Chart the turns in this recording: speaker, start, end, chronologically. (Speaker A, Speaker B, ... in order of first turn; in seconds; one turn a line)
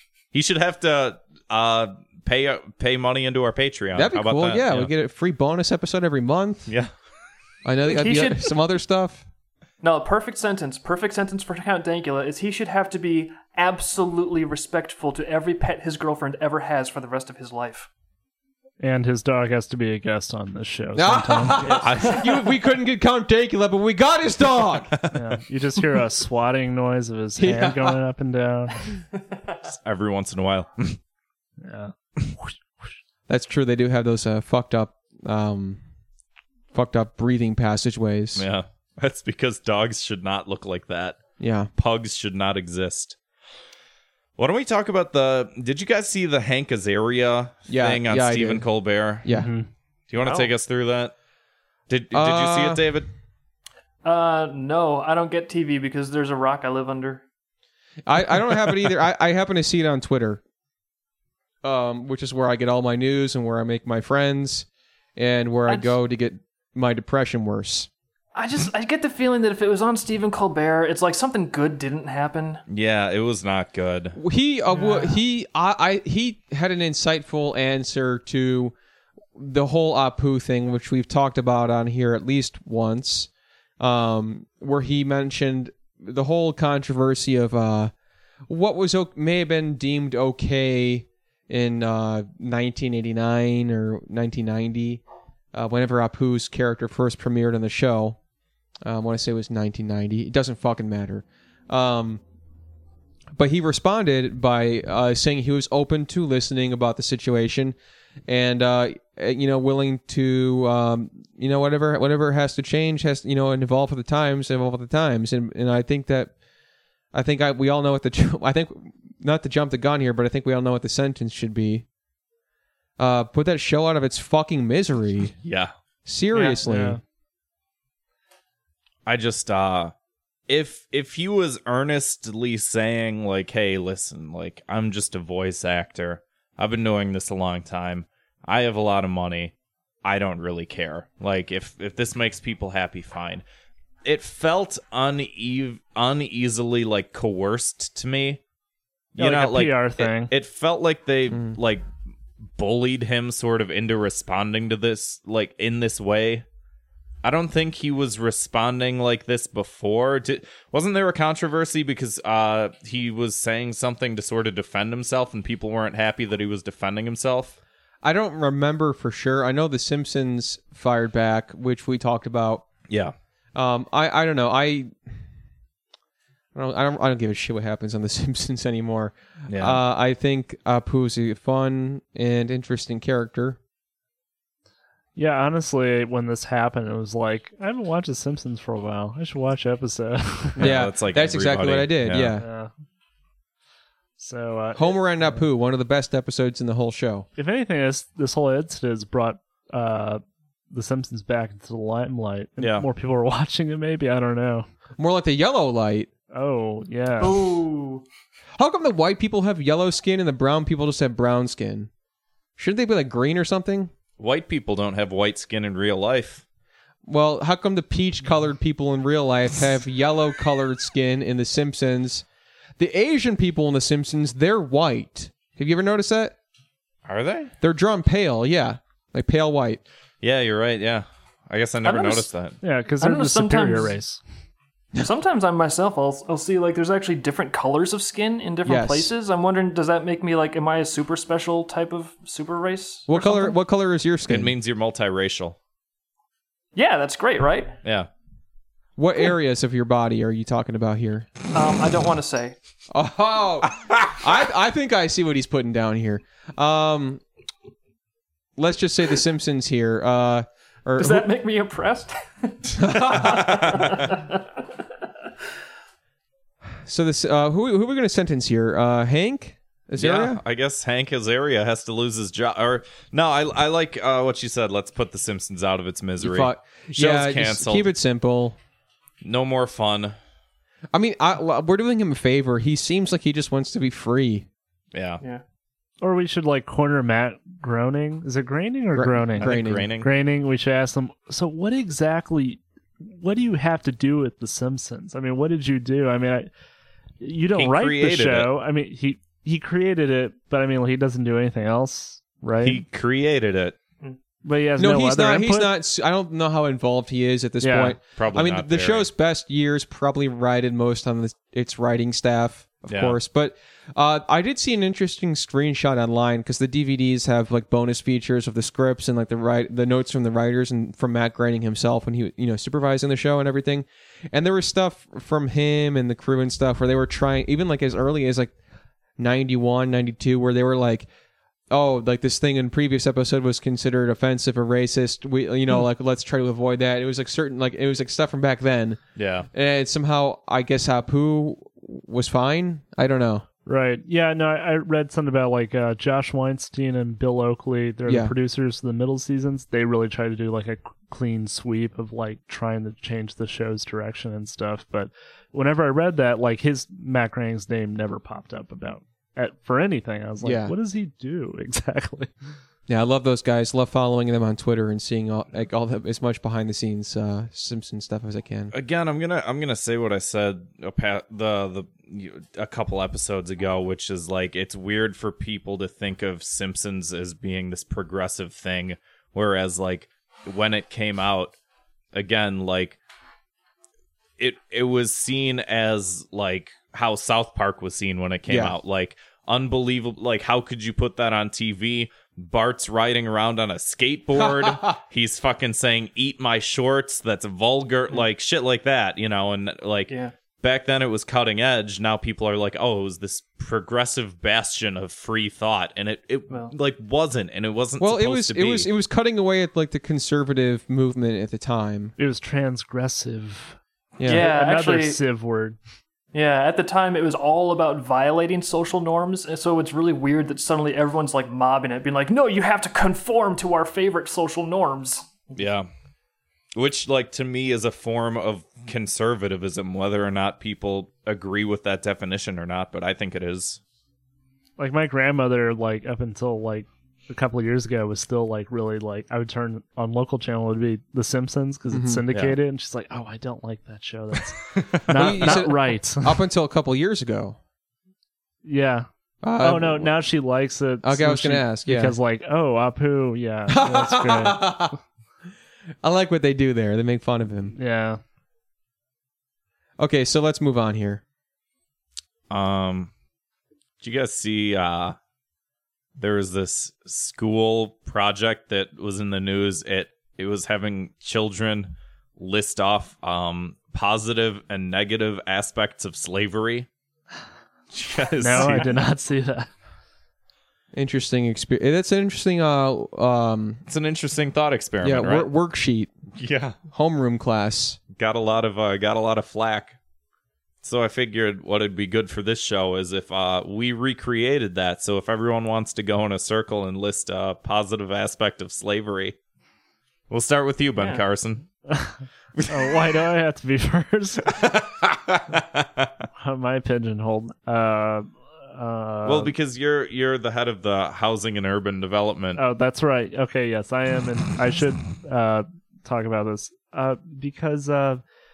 Speaker A: 0.3-4.9
Speaker B: 4.0-6.7
Speaker B: 7.7-9.2
Speaker C: 7.9-8.5
Speaker C: 9.8-17.9
Speaker D: 18.8-22.1
Speaker B: 20.9-25.0
Speaker A: 21.7-22.3
Speaker A: 24.9-25.2
Speaker D: 25.1-28.8
Speaker B: 27.4-28.0
Speaker C: 29.3-29.6
Speaker A: 29.8-31.0
Speaker D: 31.6-32.5
Speaker B: 33.3-35.8
Speaker B: 36.7-38.5
Speaker A: 38.4-43.2
Speaker B: 41.4-41.7
Speaker A: 44.4-49.3
Speaker B: 47.7-48.6
Speaker B: 49.2-49.5
Speaker D: 49.3-49.7
Speaker A: 50.1-51.1
Speaker C: 50.2-50.5
Speaker A: 51.9-53.1
Speaker B: 52.1-52.8
Speaker C: 54.0-57.2
Speaker B: 58.1-60.4
Speaker B: 61.6-67.9
Speaker C: 65.7-66.0
Speaker C: 68.3-72.6
Speaker A: 72.7-74.2
Speaker B: 74.2-78.7
Speaker C: 74.7-75.2
Speaker B: 79.3-87.9
Speaker B: 88.5-95.0
Speaker B: 95.5-98.2
Speaker B: 98.8-102.2
Speaker B: 103.3-107.8
Speaker B: 108.3-116.3
Speaker B: 117.1-121.9
Speaker B: 123.0-125.4
Speaker A: 125.4-125.7
Speaker B: 126.1-127.0
Speaker C: 126.3-126.6
Speaker D: 126.6-127.0
Speaker A: 129.1-129.9
Speaker A: 130.5-143.4
Speaker A: 144.1-148.4
Speaker A: 149.2-151.8
Speaker D: 149.2-150.3
Speaker B: 151.3-151.6
Speaker A: 152.6-156.4
Speaker A: 157.2-167.6
Speaker B: 168.0-172.7
Speaker A: 172.9-173.1
Speaker B: 173.6-174.9
Speaker B: 176.6-183.6
Speaker A: 179.5-179.8
Speaker D: 185.2-190.8
Speaker B: 190.6-192.5
Speaker A: 190.6-192.3
Speaker D: 192.4-192.7
Speaker D: 194.2-195.4
Speaker B: 194.8-197.3
Speaker D: 197.4-204.7
Speaker A: 202.6-202.9
Speaker B: 205.0-206.1
Speaker D: 206.3-207.6
Speaker C: 207.2-208.1
Speaker B: 208.6-211.9
Speaker B: 212.6-213.9
Speaker A: 214.2-216.4
Speaker B: 217.1-222.2
Speaker B: 222.8-226.3
Speaker A: 227.1-227.5
Speaker B: 227.6-229.8
Speaker A: 230.2-232.6
Speaker C: 231.8-232.3
Speaker D: 232.6-234.2
Speaker C: 233.0-234.0
Speaker C: 235.0-243.6
Speaker B: 238.7-239.1
Speaker B: 243.1-244.5
Speaker A: 244.3-245.6
Speaker C: 246.8-247.8
Speaker A: 247.8-248.1
Speaker B: 249.0-251.3
Speaker C: 251.5-252.6
Speaker B: 252.9-257.2
Speaker B: 258.6-261.3
Speaker C: 261.0-264.4
Speaker B: 262.7-263.8
Speaker A: 263.3-263.9
Speaker B: 266.8-270.4
Speaker A: 270.0-277.9
Speaker B: 276.2-278.6
Speaker A: 279.2-280.2
Speaker B: 280.9-284.5
Speaker A: 284.9-285.2
Speaker D: 286.0-296.5
Speaker B: 288.9-289.9
Speaker A: 289.4-290.1
Speaker D: 297.2-302.8
Speaker A: 297.6-298.5
Speaker A: 302.6-303.8
Speaker D: 304.4-305.7
Speaker B: 304.8-328.5
Speaker D: 307.6-308.0
Speaker A: 308.2-309.1
Speaker A: 312.9-313.2
Speaker B: 329.2-331.1
Speaker B: 331.7-339.0
Speaker A: 339.2-339.5
Speaker B: 339.5-343.5
Speaker D: 343.7-362.3
Speaker B: 348.1-348.4
Speaker B: 360.4-360.8
Speaker B: 362.9-368.7
Speaker A: 368.7-381.6
Speaker A: 382.1-383.0
Speaker A: 384.4-408.9
Speaker B: 388.5-388.8
Speaker B: 394.4-394.9
Speaker C: 400.1-400.3
Speaker B: 408.0-412.1
Speaker D: 412.2-415.8
Speaker B: 414.2-414.5
Speaker C: 414.2-415.2
Speaker C: 416.3-425.4
Speaker A: 425.6-425.9
Speaker A: 426.8-433.8
Speaker D: 434.8-446.4
Speaker B: 441.9-442.2
Speaker A: 442.3-442.6
Speaker A: 444.8-445.6
Speaker B: 445.1-447.6
Speaker D: 448.6-449.1
Speaker B: 449.4-450.1
Speaker D: 449.6-454.9
Speaker B: 451.0-452.2
Speaker B: 453.7-455.0
Speaker B: 456.0-457.8
Speaker D: 457.8-458.2
Speaker B: 460.0-461.2
Speaker A: 462.5-463.1
Speaker A: 464.0-465.2
Speaker A: 466.2-476.9
Speaker A: 477.9-478.9
Speaker D: 478.4-479.7
Speaker B: 480.9-483.8
Speaker A: 483.9-485.5
Speaker B: 485.0-486.1
Speaker A: 486.4-486.8
Speaker B: 486.9-488.0
Speaker A: 488.2-490.0
Speaker A: 490.8-499.4
Speaker A: 500.3-501.7
Speaker C: 501.0-501.2
Speaker A: 502.6-503.2
Speaker D: 502.7-504.6
Speaker A: 504.5-506.1
Speaker D: 506.4-509.5
Speaker A: 509.2-512.6
Speaker D: 512.6-518.2